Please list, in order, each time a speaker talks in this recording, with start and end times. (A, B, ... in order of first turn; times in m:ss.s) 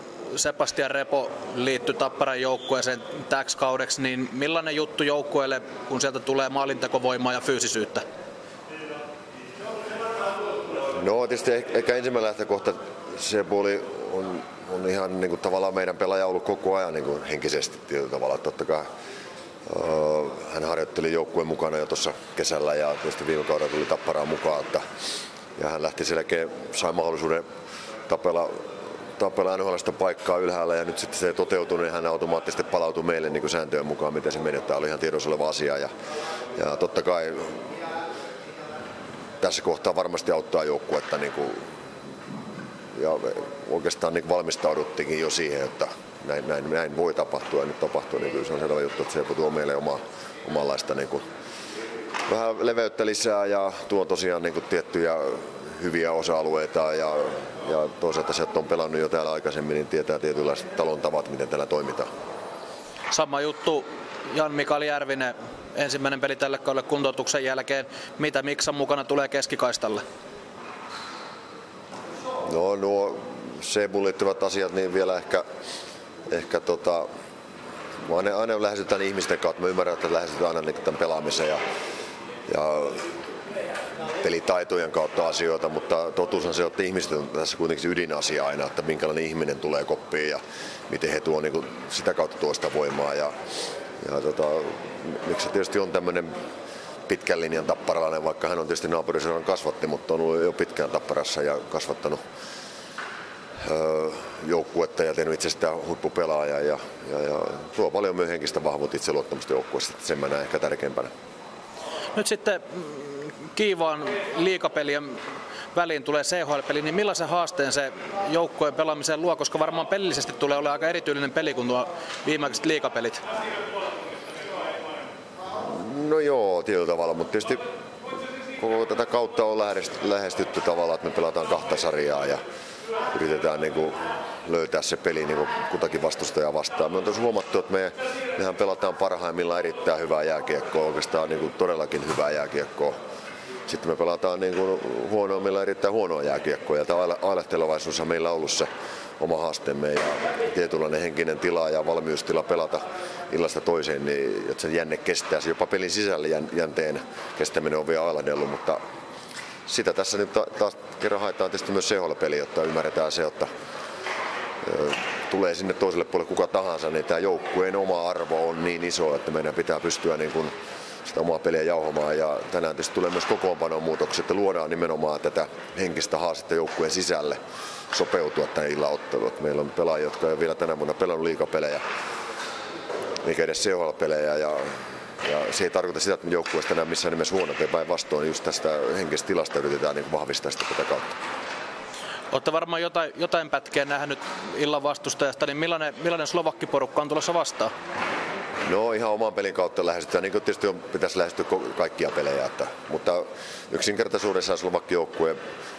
0:00.3-0:08.0 A
0:11.0-0:18.9 B
0:19.6-0:24.8 B
0:25.6-0:27.4 B
0:28.1-0:35.9 B
0:36.5-0:37.7 B
0:39.4-0:41.7 B
0:42.9-0:51.3 B
0:52.3-1:02.1 B
1:03.1-1:10.0 A
1:12.4-1:15.4 B
1:16.3-1:17.0 B
1:18.0-1:21.6 B
1:22.5-1:23.0 B
1:24.1-1:33.3 B
1:34.0-1:36.3 B
1:37.1-1:42.2 B
1:43.6-1:51.1 B
1:52.1-1:55.2 A
1:55.7-2:03.2 A
2:05.6-2:07.6 B
2:08.6-2:12.4 B
2:13.1-2:23.0 B
2:23.6-2:28.7 B
2:29.2-2:38.8 B
2:39.6-2:43.5 B
2:44.6-2:50.5 B
2:51.0-2:57.4 B
2:57.9-3:01.8 B
3:03.2-3:11.2 B
3:12.3-3:17.7 A
3:18.6-3:25.4 B